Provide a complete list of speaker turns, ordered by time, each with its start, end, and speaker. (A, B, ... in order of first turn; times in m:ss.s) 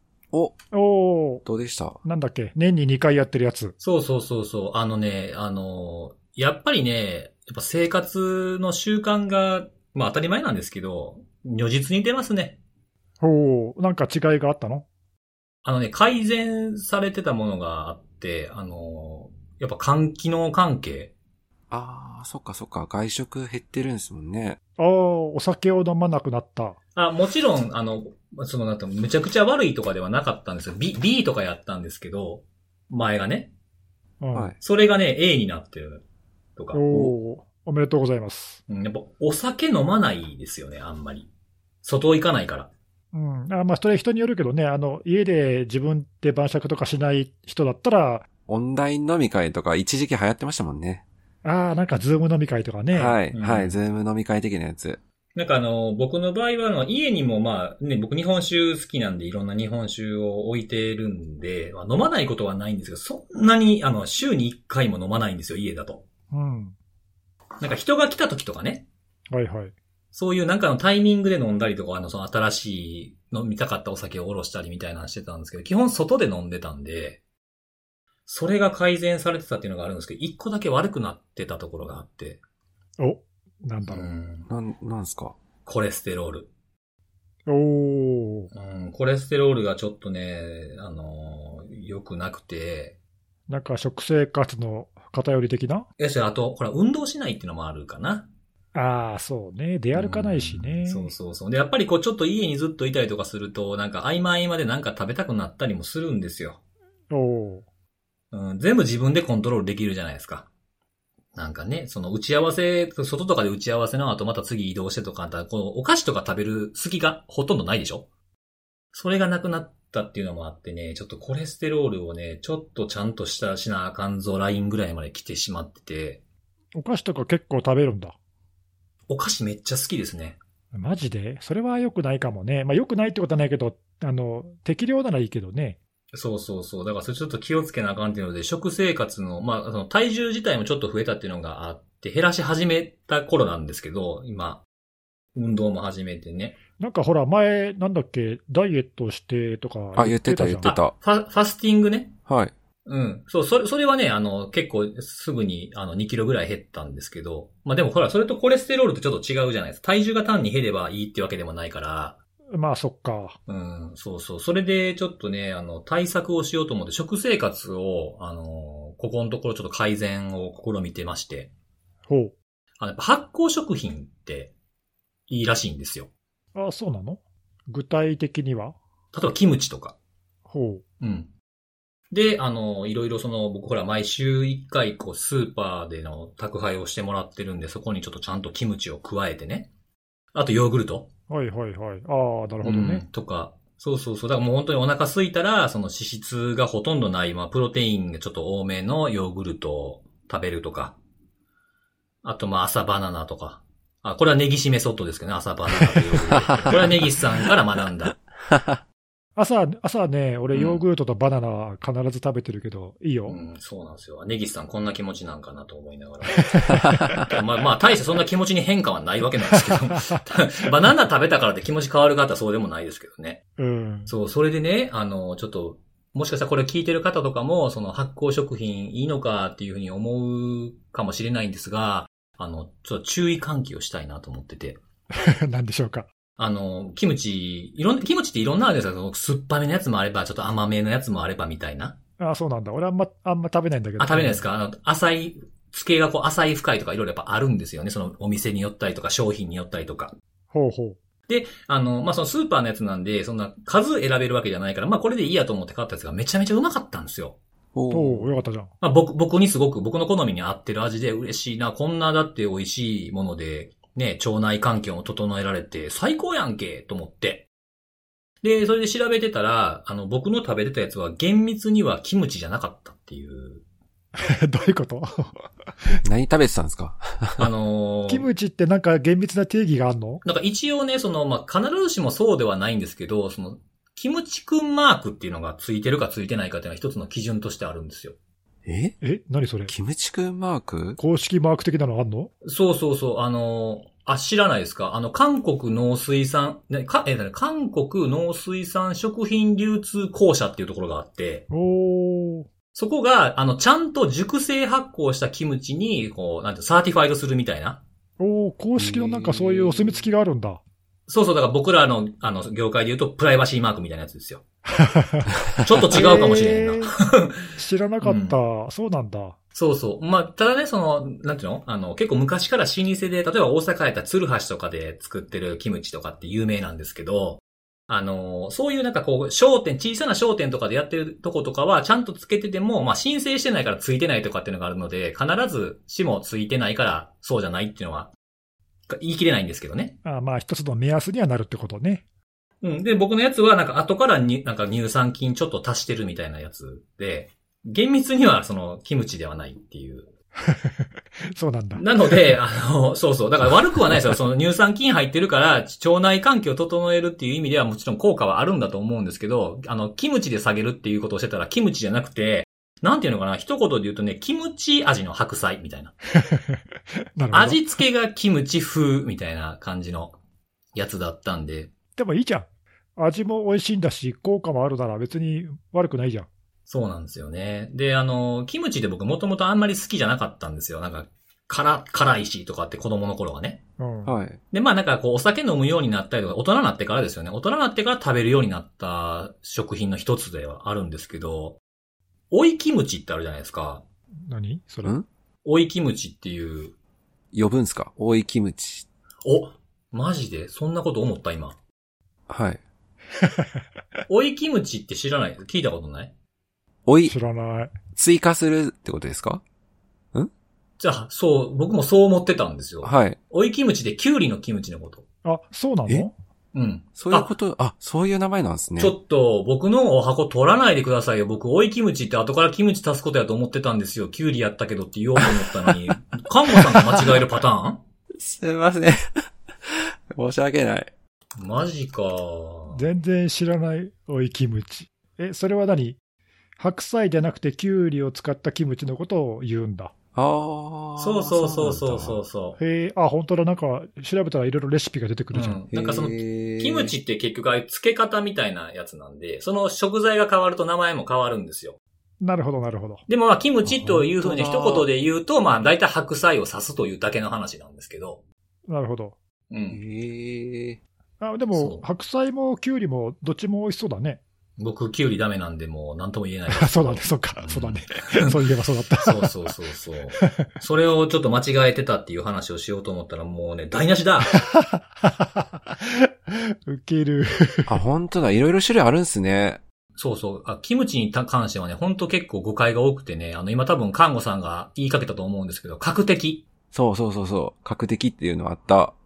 0:00.7-0:01.4 A
0:01.4-0:02.0 B
0:02.0-0:03.8 A
0:03.8-0:12.6 C
0:13.2-0:14.9 A
0:15.6-0:21.1 C
0:21.7-0:24.6 B
0:24.8-0:26.8 A
0:27.0-0:33.5 C
0:34.2-0:34.5 A
0:34.6-0:36.0 C
0:36.6-0:36.8 C
0:36.7-0:38.6 A
0:38.7-0:41.3 C
0:41.8-0:42.7 C
0:43.1-0:48.3 A
0:48.5-0:51.0 B
0:51.4-0:53.2 A
0:52.9-0:55.0 B
0:53.3-0:53.8 C
0:55.4-1:06.0 C
1:06.3-1:06.8 A
1:07.6-1:08.9 C
1:09.3-1:09.7 A
1:10.1-1:17.2 C
1:18.3-1:22.4 C
1:23.0-1:24.1 A
1:23.9-1:24.5 C
1:24.5-1:25.4 B
1:25.7-1:26.5 C
1:27.5-1:28.5 A
1:28.5-1:33.0 C
1:33.5-1:35.9 A
1:36.0-1:38.3 C
1:38.8-1:41.1 A
1:39.9-1:46.6 C
1:47.1-1:47.6 A
1:48.3-1:50.5 C
1:51.4-1:58.1 C
1:58.9-2:06.2 C
2:06.8-2:08.2 A
2:09.1-2:10.4 C
2:10.7-2:15.8 A
2:16.1-2:24.6 C
2:25.4-2:26.6 C
2:26.8-2:30.7 A
2:30.0-2:30.9 B
2:30.6-2:32.1 C
2:32.3-2:32.5 B
2:32.9-2:42.2 C
2:42.5-2:43.4 A
2:43.5-2:51.5 C
2:52.1-2:52.3 A
2:52.8-2:54.5 C
2:55.3-2:56.1 C
2:56.6-2:58.8 A
2:59.1-3:00.0 C
3:00.5-3:00.8 A
3:01.0-3:01.3 C
3:02.1-3:09.7 C
3:10.3-3:11.1 C
3:11.3-3:13.0 A
3:12.6-3:21.0 C
3:22.2-3:28.2 C
3:26.3-3:27.0 B
3:28.5-3:28.8 B
3:29.4-3:33.4 A
3:30.5-3:30.8 C
3:33.3-3:43.4 C
3:36.7-3:37.1 A
3:36.8-3:37.2 B
3:39.6-3:40.2 A
3:43.6-3:44.1 A
3:44.1-3:54.8 C
3:55.1-3:56.1 A
3:56.4-4:02.0 C
4:02.2-4:04.4 A
4:04.0-4:10.1 C
4:10.5-4:11.0 A
4:11.3-4:17.4 C
4:17.7-4:18.3 B
4:17.9-4:18.7 A
4:18.8-4:27.5 C
4:28.4-4:33.6 C
4:34.2-4:35.4 A
4:36.0-4:37.5 B
4:37.4-4:38.3 C
4:38.1-4:40.2 A
4:40.2-4:48.2 C
4:48.7-4:49.0 B
4:49.0-4:49.7 A
4:49.7-4:51.0 B
4:51.0-4:52.3 A
4:52.4-5:01.5 C
5:01.5-5:02.5 A
5:02.7-5:07.8 C
5:08.2-5:10.6 A
5:08.8-5:10.0 B
5:11.1-5:14.4 C
5:14.7-5:15.3 A
5:15.6-5:18.4 C
5:15.9-5:16.9 A
5:17.6-5:19.4 A
5:19.6-5:38.1 C
5:38.9-5:40.0 C
5:40.0-5:42.0 A
5:42.6-5:50.1 C
5:50.4-5:52.4 A
5:51.8-6:05.9 C
6:06.2-6:06.6 A
6:07.2-6:07.6 A
6:07.3-6:10.2 C
6:10.8-6:11.7 C
6:12.0-6:16.3 A
6:16.7-6:23.6 C
6:23.8-6:24.1 A
6:24.1-6:24.4 B
6:24.5-6:31.6 C
6:32.3-6:33.8 C
6:34.3-6:35.0 A
6:35.4-6:36.7 C
6:37.3-6:38.9 B
6:39.2-6:41.6 C
6:42.3-6:42.6 B
6:43.2-6:43.6 A
6:44.1-6:46.1 C
6:46.9-6:47.1 B
6:47.1-6:47.8 A
6:47.9-6:49.4 B
6:50.8-6:55.0 C
6:52.8-6:53.2 B
6:55.2-6:56.1 A
6:56.5-6:57.3 C
6:57.0-6:59.0 B
6:58.8-7:07.8 C
7:05.3-7:05.7 B
7:06.6-7:06.9 B
7:08.2-7:09.1 B
7:09.7-7:10.9 B
7:11.4-7:12.8 C
7:12.7-7:16.0 A
7:16.6-7:19.9 A
7:20.2-7:22.2 B
7:21.0-7:22.6 C
7:22.6-7:25.6 A
7:25.3-7:31.8 C
7:25.7-7:26.9 B
7:32.2-7:33.0 A
7:33.1-7:38.2 C
7:33.7-7:34.9 B
7:38.7-7:39.2 A
7:39.5-7:39.8 C
7:39.7-7:40.8 B
7:41.2-7:44.2 A
7:41.5-7:41.8 C
7:44.6-7:48.4 C
7:46.5-7:49.3 A
7:49.0-7:54.4 C
7:50.2-7:50.5 A
7:54.3-7:57.8 A
7:57.7-7:59.6 B
8:00.0-8:06.4 C
8:06.7-8:08.9 B